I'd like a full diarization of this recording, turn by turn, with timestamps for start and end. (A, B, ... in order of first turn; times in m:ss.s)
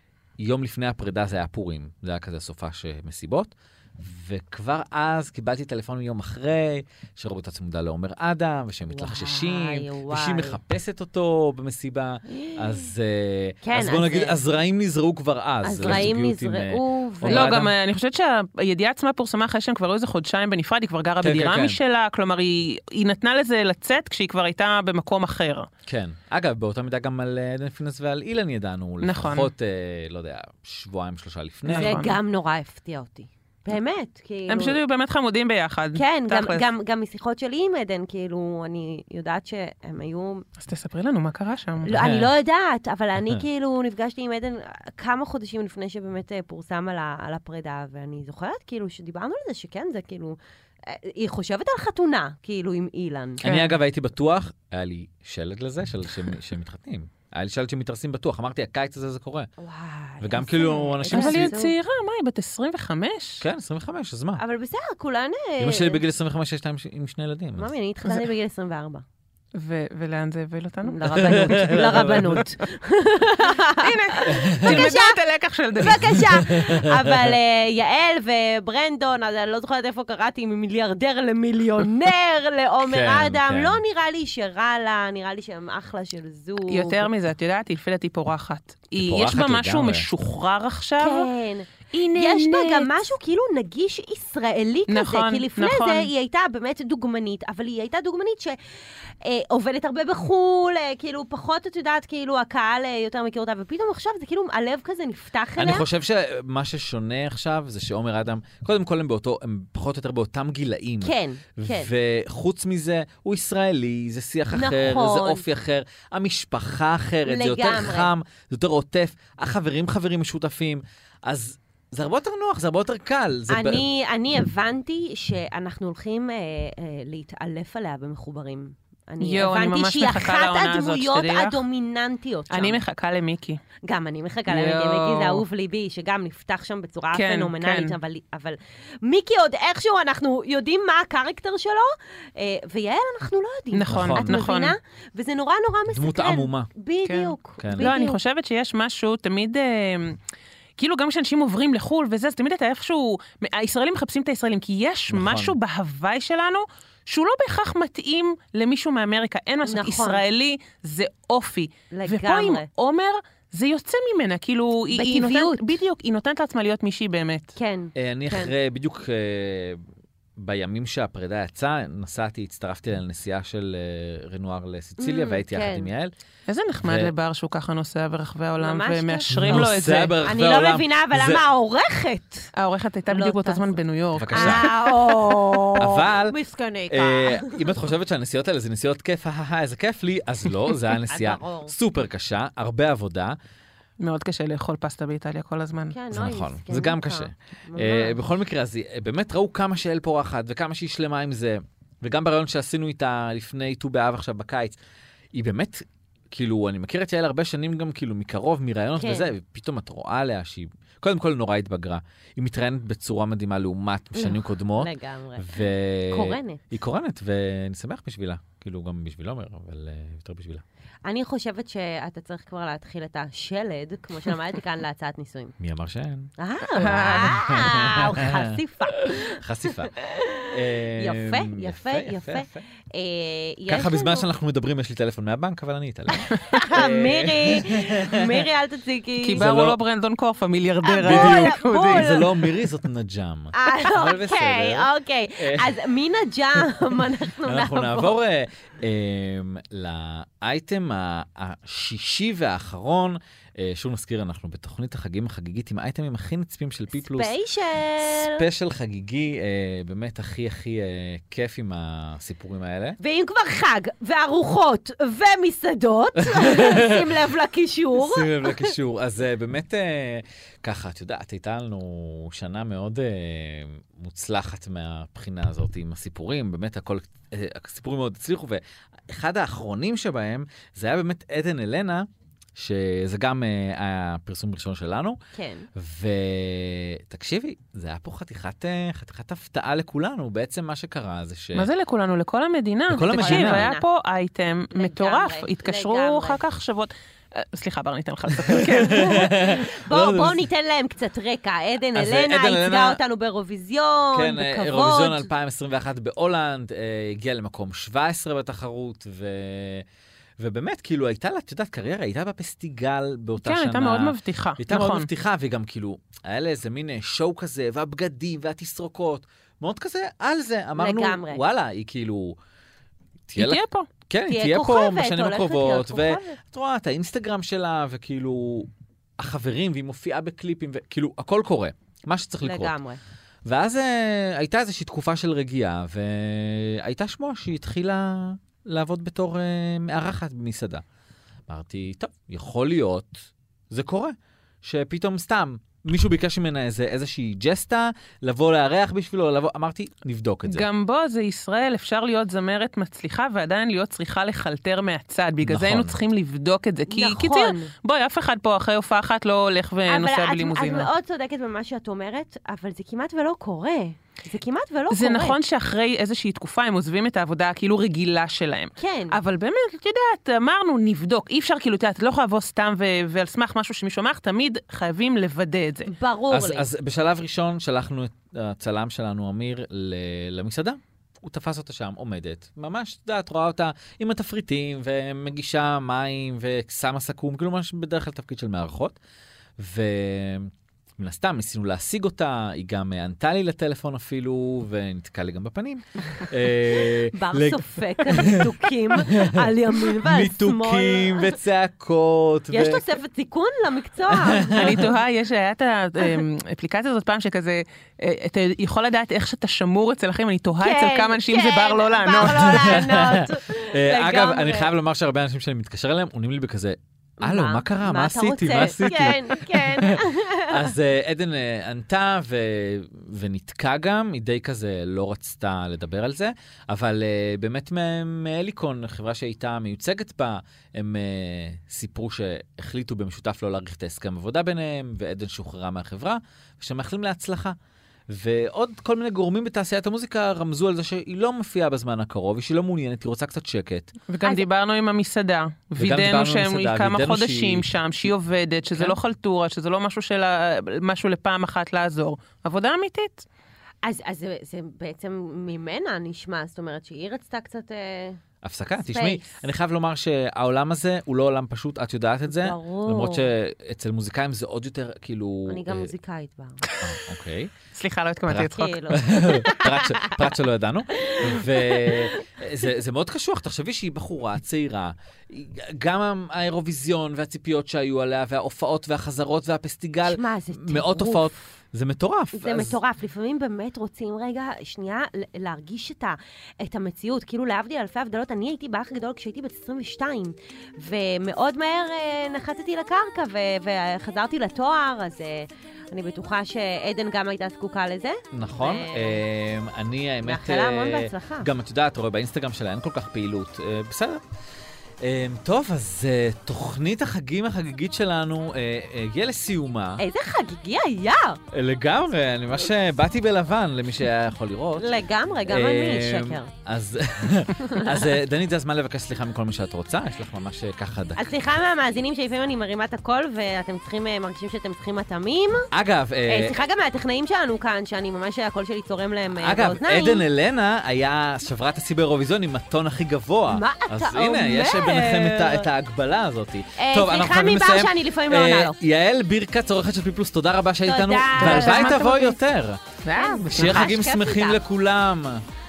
0:00.4-0:17.7 A
0:08.9-0:10.6 B
0:12.3-0:12.9 B
0:13.6-0:14.4 B
0:15.6-0:17.6 B
0:17.3-0:25.7 C
0:21.2-0:21.8 A
0:25.9-0:32.0 A
0:29.0-0:29.5 C
0:31.7-0:32.2 C
0:31.7-0:34.8 B
0:34.5-0:36.6 C
0:36.0-0:40.4 B
0:40.6-0:41.9 C
0:41.9-0:53.4 B
0:41.9-0:42.3 A
0:53.4-0:59.5 A
0:53.4-0:53.8 C
0:59.6-1:01.7 B
1:00.2-1:01.6 A
1:01.1-1:03.4 C
1:03.4-1:04.4 A
1:04.4-1:06.0 B
1:05.6-1:07.7 A
1:07.6-1:09.0 B
1:09.6-1:12.4 C
1:10.8-1:15.2 B
1:11.2-1:12.4 A
1:13.8-1:16.3 C
1:14.3-1:14.9 A
1:15.8-1:27.1 B
1:15.9-1:17.3 A
1:22.8-1:23.8 A
1:26.7-1:31.3 C
1:29.0-1:30.1 A
1:31.0-1:38.6 B
1:31.9-1:33.0 C
1:34.9-1:36.1 C
1:39.2-1:45.9 B
1:45.6-2:03.8 A
1:51.0-1:51.9 B
1:54.5-1:55.5 B
1:57.3-1:58.1 B
2:03.5-2:12.8 B
2:09.2-2:11.6 C
2:12.5-2:13.6 C
2:13.8-2:28.2 B
2:14.5-2:15.4 C
2:17.1-2:18.0 C
2:23.7-2:24.8 C
2:23.9-2:24.5 A
2:25.9-2:26.7 A
2:27.1-2:30.2 C
2:27.6-2:27.9 A
2:30.8-2:47.5 C
2:35.1-2:35.6 A
2:39.7-2:40.2 B
2:41.9-2:42.7 B
2:44.9-2:45.7 B
2:47.6-2:48.5 B
2:48.0-2:49.8 A
2:50.4-2:56.1 A
2:55.0-2:55.9 B
2:56.5-3:00.2 C
2:56.8-2:57.1 A
2:58.6-3:02.5 B
2:59.3-3:01.4 A
3:02.6-3:04.8 C
3:03.1-3:03.8 B
3:04.1-3:04.7 A
3:04.3-3:07.7 B
3:05.8-3:06.4 A
3:06.9-3:13.4 A
3:11.1-3:11.7 B
3:14.0-3:16.0 C
3:15.9-3:18.2 B
3:16.1-3:24.8 A
3:25.3-3:40.6 A
3:29.0-3:29.3 B
3:34.2-3:36.7 B
3:41.0-3:45.6 B
3:45.6-3:49.9 A
3:46.4-3:54.3 B
3:46.8-3:47.3 C
3:50.5-3:52.7 A
3:53.7-3:58.5 A
3:56.2-3:59.4 B
3:59.2-4:02.4 C
3:59.4-3:59.8 A
4:00.8-4:02.3 B
4:01.0-4:05.8 A
4:03.5-4:08.2 B
4:07.4-4:17.4 A
4:16.9-4:18.5 B
4:18.0-4:23.0 A
4:23.0-4:28.7 B
4:26.2-4:27.2 A
4:28.0-4:45.2 A
4:45.3-4:45.7 B
4:45.8-4:51.7 A
4:51.6-4:59.3 C
4:52.9-4:53.7 A
4:53.1-4:53.9 B
4:54.7-4:56.4 B
4:58.3-5:00.5 A
4:58.8-5:05.3 B
5:02.0-5:03.0 A
5:04.1-5:09.9 A
5:10.4-5:22.4 A
5:13.4-5:15.1 C
5:20.8-5:21.4 B
5:23.3-5:32.8 A
5:23.4-5:23.9 C
5:24.3-5:26.4 B
5:32.4-5:33.0 B
5:33.4-5:40.8 A
5:41.5-5:50.7 A
5:50.5-6:00.9 C
5:55.4-5:56.0 A
5:56.9-5:57.7 B
5:59.9-6:05.4 B
6:04.9-6:15.9 C
6:08.8-6:09.2 B
6:15.9-6:16.7 B
6:16.3-6:29.0 A
6:29.6-6:42.8 A
6:36.8-6:41.3 B
6:42.5-6:44.9 B
6:44.1-6:44.9 A
6:44.5-6:52.8 C
6:50.6-6:54.7 B
6:52.4-7:17.6 A
6:57.2-7:00.7 B
7:18.1-7:23.9 A
7:24.1-7:33.3 C
7:25.8-7:28.1 A
7:28.7-7:29.0 A
7:33.8-7:38.2 B
7:38.4-7:45.9 A
7:38.8-7:39.4 B
7:42.3-7:43.3 B
7:45.5-7:46.7 B
7:46.8-7:47.5 A
7:47.8-7:49.0 C
7:48.3-8:02.8 A
7:48.5-7:50.2 B
7:51.0-7:52.1 B
8:00.0-8:01.4 B
8:02.3-8:19.2 B
8:18.3-8:24.2 A
8:20.2-8:21.5 B
8:25.0-8:30.0 A
8:30.0-8:31.4 B
8:31.5-8:34.8 A
8:34.8-8:36.5 B
8:35.5-8:41.3 A
8:37.6-8:37.9 B
8:41.2-8:45.7 B
8:45.7-8:46.6 A
8:46.3-8:50.2 B
8:49.4-9:05.5 A
8:53.5-8:55.7 B
8:56.8-8:58.8 B
9:00.8-9:02.1 B
9:01.4-9:02.4 C
9:03.0-9:03.9 C
9:03.1-9:04.6 B